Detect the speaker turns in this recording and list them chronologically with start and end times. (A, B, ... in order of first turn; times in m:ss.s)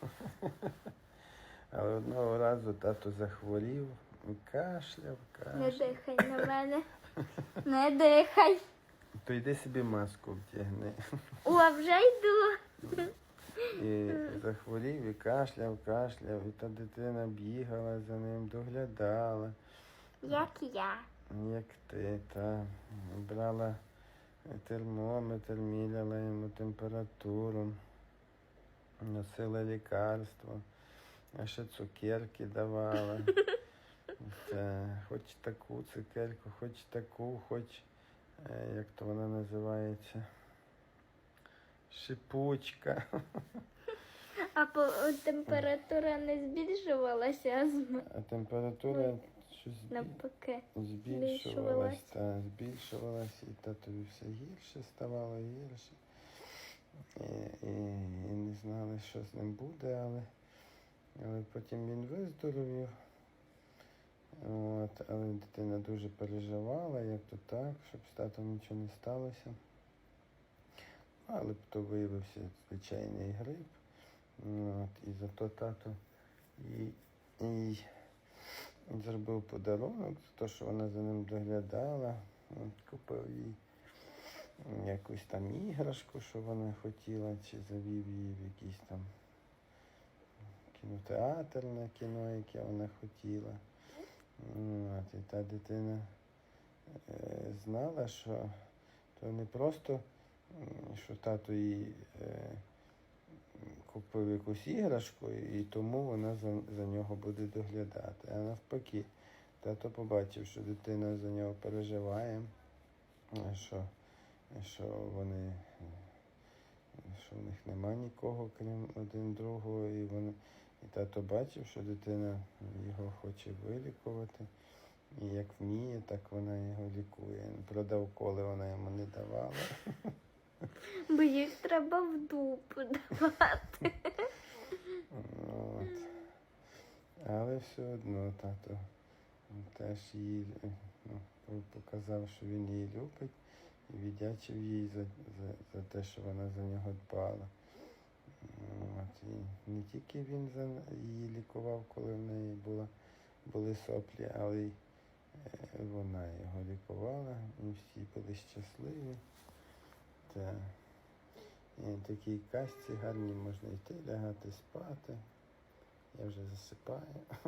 0:00.2-0:00.7 A
0:01.7-0:06.4 A
0:05.5-0:06.8 B
0:07.6-0:08.6 B
0:09.2-0:11.0 A
0:11.4-0:13.1 B
0:13.7-0:19.6 A
0:14.1-0:14.4 B
0:20.2-0:21.0 B
0:21.3-0:23.8 A
0:24.5-0:27.8 A
0:29.0-0:30.6 A
0:31.3-0:33.4 A
0:34.2-0:37.9 A
0:38.4-0:40.3 A
0:41.9-0:43.4 A
0:44.5-0:48.0 B
0:48.0-0:50.2 A
0:49.9-0:52.0 B
0:50.7-0:56.0 A
0:57.2-1:00.3 A
1:01.2-1:02.9 A
1:04.4-1:09.6 A
1:11.2-1:13.8 A
1:14.4-1:16.0 A
1:16.6-1:17.8 A
1:18.9-1:23.6 A
1:24.6-1:29.1 A
1:30.7-1:33.6 A
1:34.4-1:36.1 A
1:37.0-1:38.6 A
1:39.2-1:42.6 A
1:43.6-1:52.5 A
1:53.3-1:53.9 A
1:54.5-1:56.1 A
1:57.0-2:04.5 A
2:05.1-2:10.1 A
2:11.1-2:14.3 B
2:15.1-2:16.2 A
2:17.2-2:18.8 A
2:19.5-2:23.3 A
2:23.9-2:27.5 A
2:28.4-2:32.9 A
2:33.4-2:34.8 A
2:35.4-2:39.2 A
2:40.3-2:40.7 A
2:41.8-2:45.2 A
2:46.1-2:47.2 A